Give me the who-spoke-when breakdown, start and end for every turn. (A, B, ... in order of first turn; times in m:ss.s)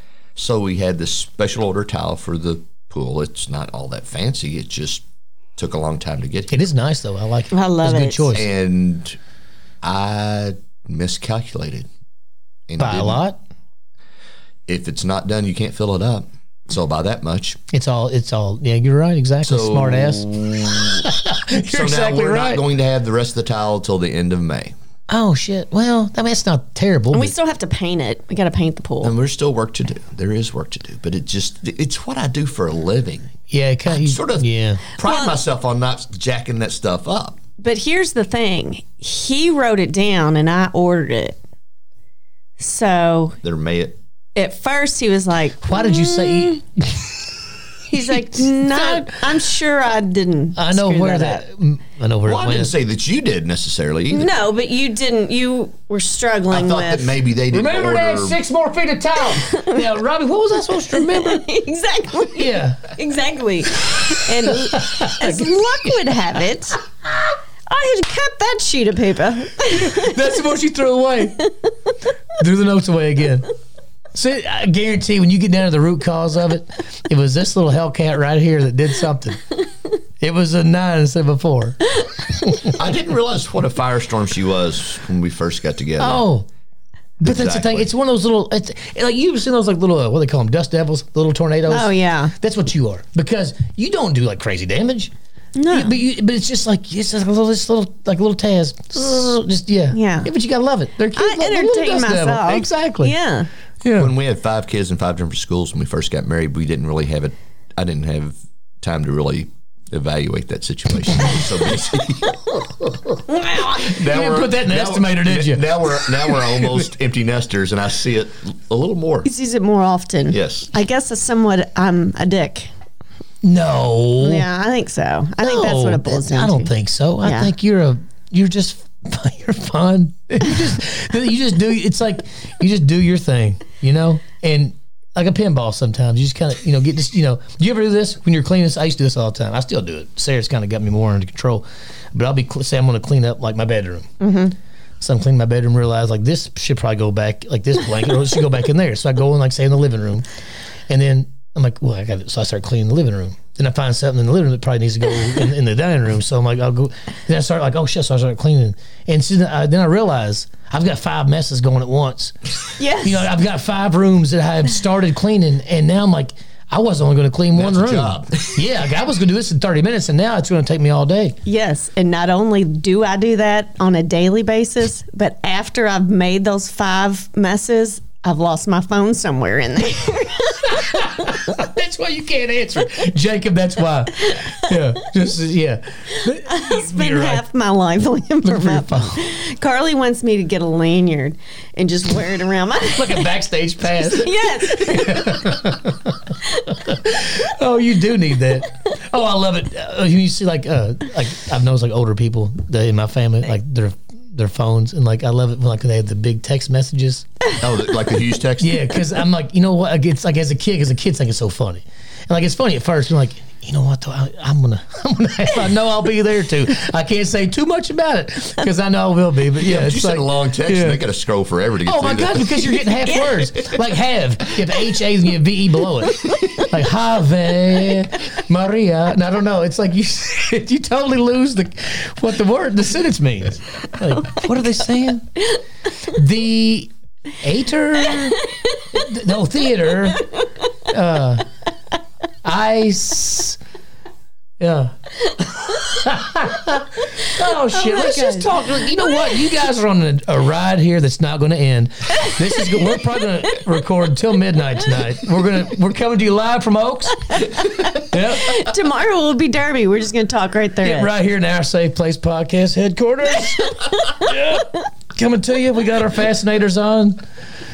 0:00.4-0:05.0 A
0:05.6-0:06.6 A
0:06.5-0:08.5 B
0:07.5-0:08.3 C
0:08.3-0:09.2 A
0:09.8-0:11.9 A
0:12.7-0:13.2 A
0:12.8-0:13.4 B
0:14.7-0:17.6 A
0:17.7-0:22.6 B
0:19.4-0:24.7 A
0:25.1-0:27.3 B
0:27.1-0:29.1 C
0:29.0-0:33.3 A
0:33.5-0:34.8 B
0:33.9-0:37.4 A
0:35.0-0:35.4 C
0:37.6-0:41.4 C
0:42.6-0:43.4 C
0:43.4-0:44.0 A
0:44.3-0:46.6 C
0:45.6-0:49.1 B
0:47.9-0:51.4 C
0:50.6-0:52.7 B
0:52.2-0:54.3 A
0:54.1-0:57.2 C
0:56.5-0:58.4 A
0:57.5-1:01.4 B
0:59.4-0:59.8 C
1:00.9-1:06.8 C
1:02.3-1:02.9 B
1:03.8-1:06.0 B
1:07.7-1:10.2 C
1:09.6-1:11.5 B
1:12.4-1:13.5 B
1:14.1-1:19.5 B
1:20.2-1:22.7 B
1:22.7-1:26.2 A
1:26.0-1:26.5 B
1:27.2-1:35.1 B
1:27.2-1:27.9 A
1:31.7-1:32.3 C
1:35.6-1:35.9 C
1:35.7-1:43.1 B
1:39.9-1:40.3 C
1:41.2-1:43.5 C
1:43.8-1:44.1 B
1:43.9-1:52.5 A
1:53.3-1:54.0 C
1:53.7-1:59.3 A
1:53.9-1:56.7 B
1:59.2-2:02.7 C
2:00.3-2:00.7 A
2:03.4-2:04.5 B
2:04.2-2:07.5 C
2:05.4-2:24.1 B
2:24.2-2:24.5 C
2:25.0-2:30.2 B
2:30.9-2:42.3 B
2:42.8-2:43.2 C
2:43.0-2:51.4 B
2:47.5-2:48.6 A
2:51.4-3:00.7 C
3:00.7-3:07.4 B
3:06.4-3:13.3 C
3:08.4-3:09.2 B
3:12.9-3:27.3 B
3:13.8-3:15.4 C
3:27.6-3:29.0 A
3:28.6-3:41.0 B
3:39.6-3:42.9 A
3:41.8-3:55.3 B
3:56.1-3:58.4 B
3:58.9-4:00.2 B
4:00.9-4:01.4 B
4:02.4-4:03.6 B
4:04.6-4:18.6 B
4:07.7-4:08.6 C
4:18.4-4:21.1 C
4:20.8-4:27.2 B